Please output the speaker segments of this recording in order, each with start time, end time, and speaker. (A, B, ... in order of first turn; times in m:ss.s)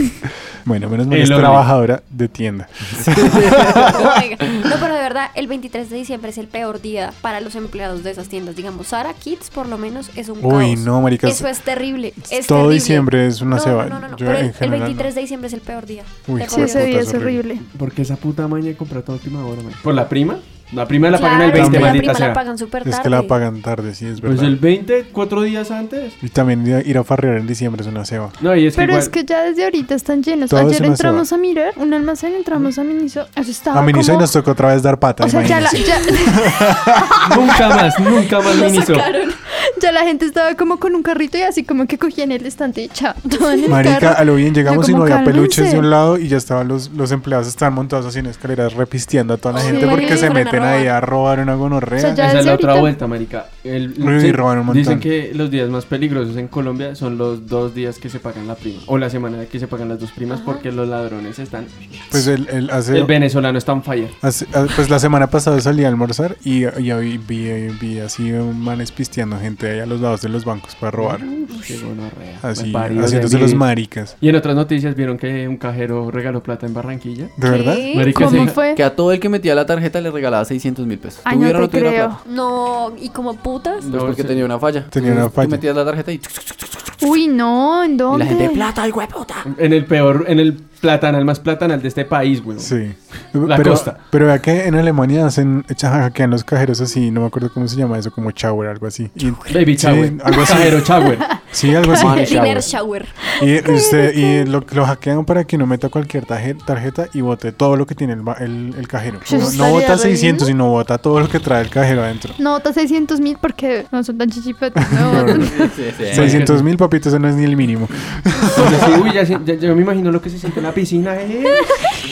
0:00.6-0:04.2 A
0:01.1-0:01.7 B
0:03.0-0:03.9 C
0:03.6-0:16.9 D
0:10.4-0:11.5 A
0:12.3-0:15.1 A
0:16.3-0:17.4 A
0:16.5-0:17.6 E
0:17.7-0:22.4 B
0:21.1-0:23.3 D
0:21.5-0:22.1 A
0:22.8-0:24.6 A
0:24.2-0:26.2 B
0:26.2-0:28.4 A
0:28.4-0:29.1 B
0:28.7-0:34.3 E
0:30.5-0:31.2 A
0:33.7-0:37.5 A
0:35.2-0:37.3 E
0:35.8-0:36.1 D
0:37.2-0:39.1 B
0:38.4-0:39.4 D
0:39.7-0:45.9 E
0:43.3-0:43.8 D
0:43.7-0:52.2 A
0:49.5-0:50.9 D
0:49.6-0:50.3 E
0:52.0-0:53.0 E
0:52.2-1:02.3 B
0:54.0-0:55.1 A
1:00.3-1:00.6 D
1:02.1-1:03.1 A
1:02.9-1:04.2 B
1:04.2-1:11.2 A
1:11.0-1:17.3 B
1:11.5-1:11.8 D
1:12.4-1:14.1 A
1:17.4-1:17.8 A
1:17.4-1:18.4 D
1:17.9-1:18.6 B
1:18.1-1:18.8 E
1:18.7-1:22.1 C
1:21.2-1:22.2 E
1:22.2-1:23.8 D
1:23.8-1:24.5 B
1:23.9-1:27.0 C
1:24.9-1:25.6 A
1:27.0-1:28.7 E
1:28.1-1:29.5 C
1:29.4-1:32.7 B
1:32.6-1:42.4 A
1:33.4-1:34.0 B
1:39.5-1:41.3 B
1:41.3-1:42.1 E
1:41.8-1:43.2 D
1:41.9-1:42.7 C
1:43.3-1:44.4 E
1:43.4-1:52.4 A
1:49.2-1:50.5 E
1:52.4-1:55.7 E
1:54.8-1:55.5 A
1:55.2-1:56.4 C
1:56.1-1:59.0 A
1:56.1-1:56.7 B
1:58.5-2:01.7 B